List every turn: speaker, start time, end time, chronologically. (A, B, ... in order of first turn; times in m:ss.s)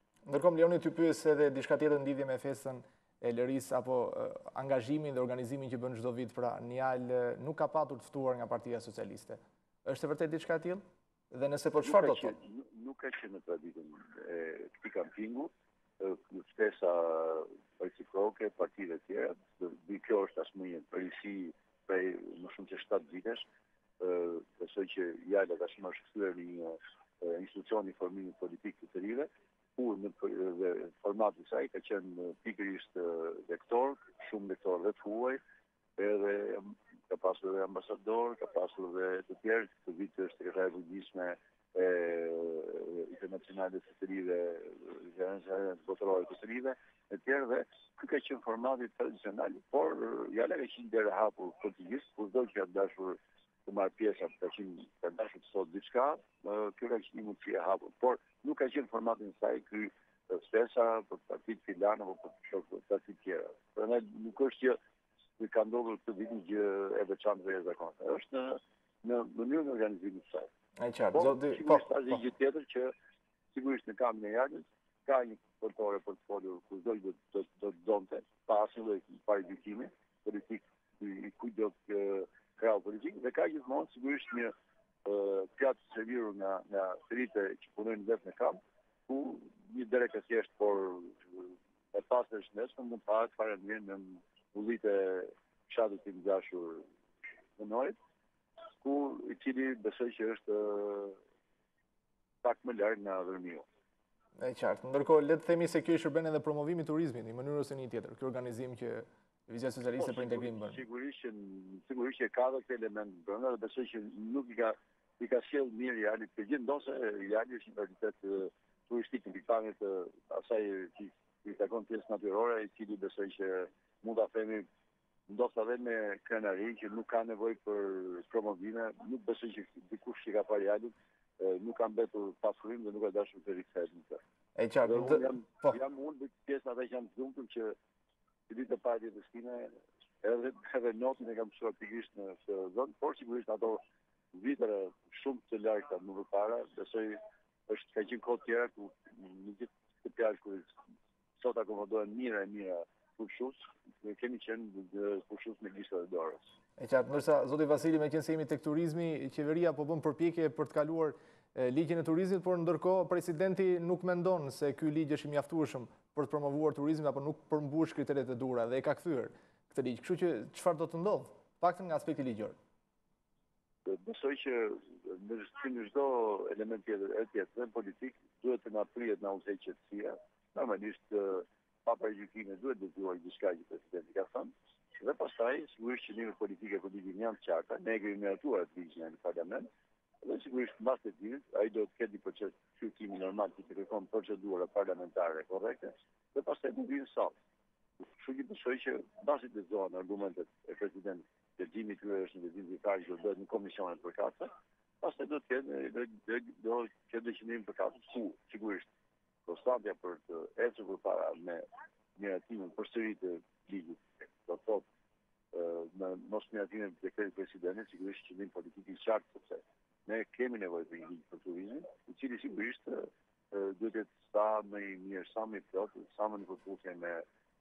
0:00.3-0:12.3 A
0:11.8-0:23.4 B
0:24.0-0:35.4 B
0:36.0-1:04.8 B
1:05.4-1:10.5 B
1:10.8-1:11.8 A
1:11.1-1:12.9 B
1:13.5-1:24.5 B
1:25.0-1:36.8 B
1:37.6-1:37.9 B
1:38.8-1:41.2 B
1:42.4-1:43.6 B
1:44.4-1:50.8 A
1:50.0-2:04.7 B
2:05.3-2:14.2 B
2:14.6-2:15.3 A
2:14.8-2:17.8 B
2:18.5-2:23.8 B
2:24.3-2:30.7 B
2:31.4-2:36.5 B
2:36.8-2:52.6 A
2:53.8-3:09.7 B
3:10.2-3:17.4 B
3:18.2-3:28.9 B
3:29.4-3:34.8 B
3:35.5-3:47.2 B